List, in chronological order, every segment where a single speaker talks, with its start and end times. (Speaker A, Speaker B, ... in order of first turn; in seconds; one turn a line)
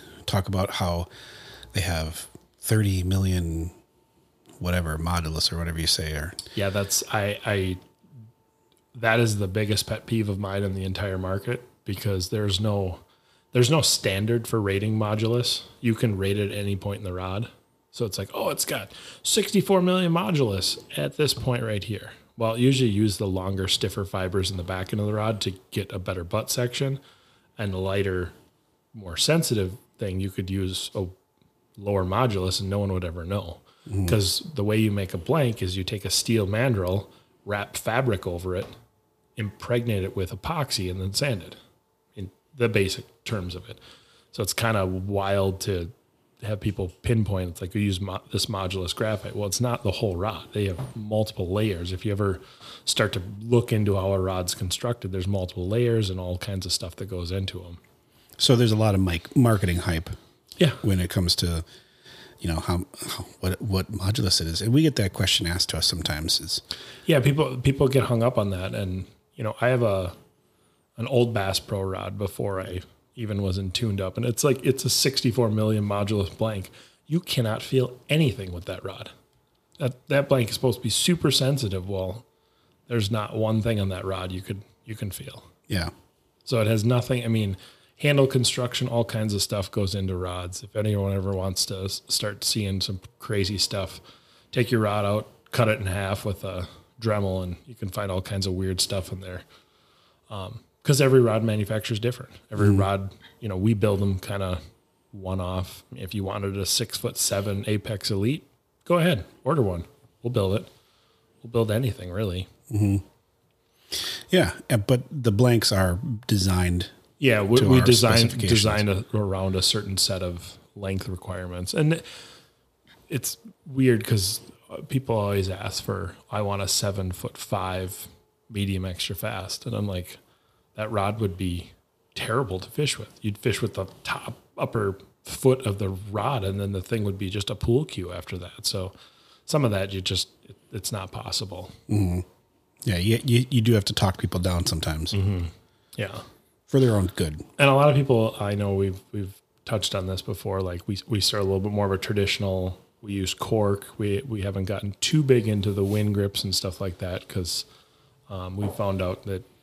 Speaker A: 0.2-1.1
Speaker A: 1.7-3.7
Speaker A: 4.6-6.3
Speaker B: 6.5-7.8
Speaker B: 8.9-13.0
Speaker B: 13.5-27.0
Speaker B: 27.6-28.3
Speaker B: 28.9-31.1
Speaker B: 31.8-38.7
Speaker A: 33.9-34.1
Speaker B: 39.4-41.6
Speaker B: 42.1-43.8
Speaker B: 44.3-57.8
Speaker A: 58.4-60.1
Speaker A: 60.8-61.6
Speaker A: 62.4-66.6
Speaker B: 67.1-70.1
Speaker B: 71.0-79.1
Speaker B: 79.8-82.2
Speaker B: 82.9-85.5
Speaker B: 86.5-94.0
Speaker B: 94.5-99.4
Speaker B: 100.3-104.6
Speaker A: 102.6-102.8
Speaker B: 105.1-110.7
Speaker B: 111.4-112.5
Speaker A: 112.7-113.0
Speaker A: 114.0-116.9
Speaker B: 117.2-122.0
Speaker A: 117.5-118.8
Speaker B: 123.1-130.2
Speaker B: 130.8-138.9
Speaker B: 139.5-141.7
Speaker A: 141.9-142.2
Speaker A: 142.8-145.1
Speaker B: 145.1-146.2
Speaker A: 146.7-147.4
Speaker B: 147.6-157.7
Speaker B: 158.3-159.4